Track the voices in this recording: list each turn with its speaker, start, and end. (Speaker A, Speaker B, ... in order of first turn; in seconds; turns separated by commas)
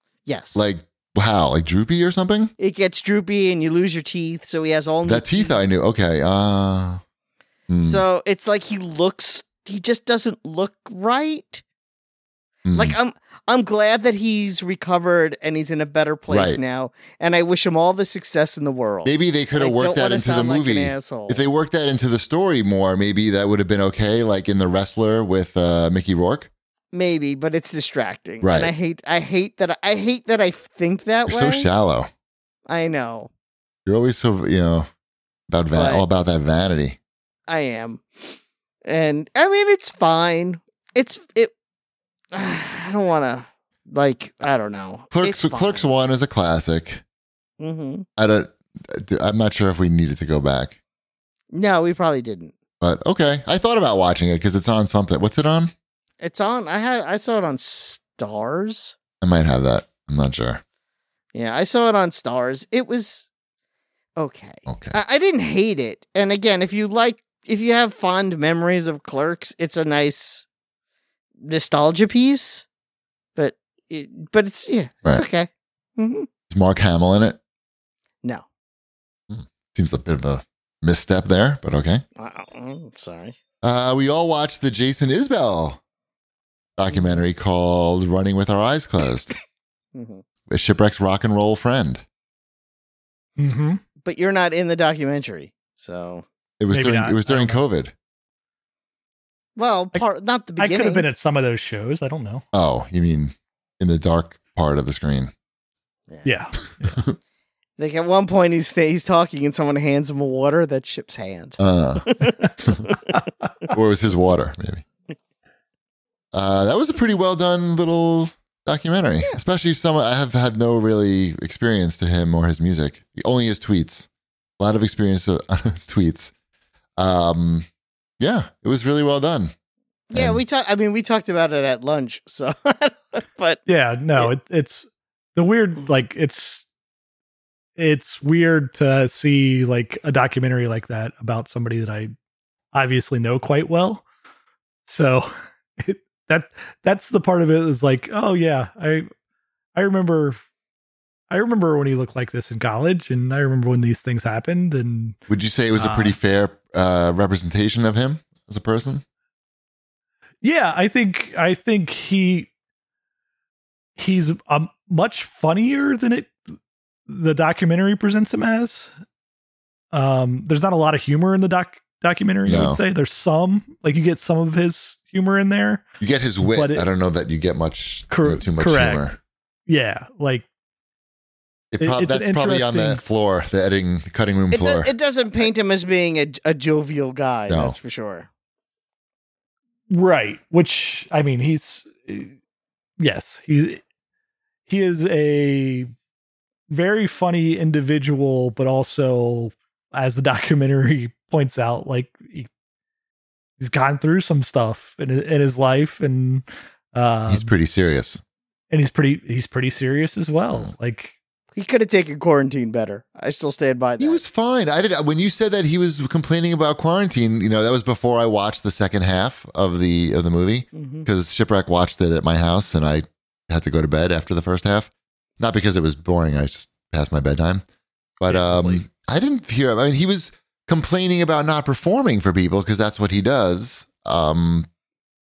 Speaker A: 0.3-0.7, Speaker B: 0.6-2.5, Speaker A: 2.6-5.6, Speaker B: 5.0-7.0, Speaker B: 7.7-8.0, Speaker A: 7.8-11.6, Speaker B: 12.7-13.0, Speaker A: 12.7-21.5, Speaker B: 16.3-16.6, Speaker B: 19.1-26.5, Speaker A: 26.9-31.7, Speaker B: 28.4-28.7, Speaker B: 31.3-32.1, Speaker A: 32.7-33.3, Speaker B: 33.9-34.9, Speaker B: 35.5-37.0, Speaker A: 35.7-36.1, Speaker A: 37.5-41.5, Speaker A: 42.3-45.9, Speaker B: 45.1-47.0, Speaker A: 47.6-48.1, Speaker B: 48.2-50.8, Speaker A: 51.5-52.5, Speaker B: 52.8-55.7, Speaker A: 56.2-59.0, Speaker B: 59.2-60.6, Speaker A: 61.3-63.3, Speaker A: 64.2-70.5, Speaker B: 64.7-65.0, Speaker A: 71.4-72.7, Speaker A: 73.4-76.3, Speaker B: 76.5-77.4, Speaker B: 79.3-82.0, Speaker A: 82.2-83.4, Speaker B: 83.6-85.8, Speaker B: 86.8-89.3, Speaker A: 86.9-87.2, Speaker A: 89.9-90.2, Speaker B: 90.5-92.0, Speaker C: 93.4-93.8, Speaker A: 94.0-96.3, Speaker B: 96.6-97.9, Speaker C: 96.7-97.6, Speaker A: 99.6-101.1, Speaker C: 100.6-102.4, Speaker B: 102.5-105.3, Speaker C: 106.2-107.0, Speaker A: 107.8-113.0, Speaker B: 111.6-112.9, Speaker B: 113.7-114.8, Speaker B: 116.3-126.3, Speaker B: 127.0-127.7, Speaker B: 128.2-129.5, Speaker A: 130.1-133.6, Speaker B: 130.1-130.4, Speaker C: 133.7-136.7, Speaker C: 137.8-142.1, Speaker C: 142.7-144.1, Speaker C: 144.9-149.1, Speaker C: 149.8-150.4, Speaker C: 151.3-155.2, Speaker B: 155.3-159.0, Speaker C: 155.8-156.2, Speaker C: 160.4-162.5, Speaker C: 164.0-166.4, Speaker C: 167.1-168.9, Speaker C: 169.9-175.9, Speaker B: 172.4-172.8, Speaker B: 176.0-179.2, Speaker C: 176.4-176.9, Speaker C: 178.1-179.1, Speaker C: 179.7-180.5, Speaker B: 181.7-184.9, Speaker C: 181.8-183.0, Speaker A: 184.5-188.3, Speaker B: 187.5-187.8, Speaker C: 189.9-192.3, Speaker C: 193.0-193.8, Speaker C: 194.7-195.9, Speaker C: 196.7-202.5, Speaker C: 203.6-207.5, Speaker B: 207.3-208.2, Speaker C: 208.7-211.2, Speaker A: 211.6-214.2, Speaker B: 214.0-227.6, Speaker A: 220.7-221.1, Speaker B: 228.2-234.7, Speaker C: 228.3-228.8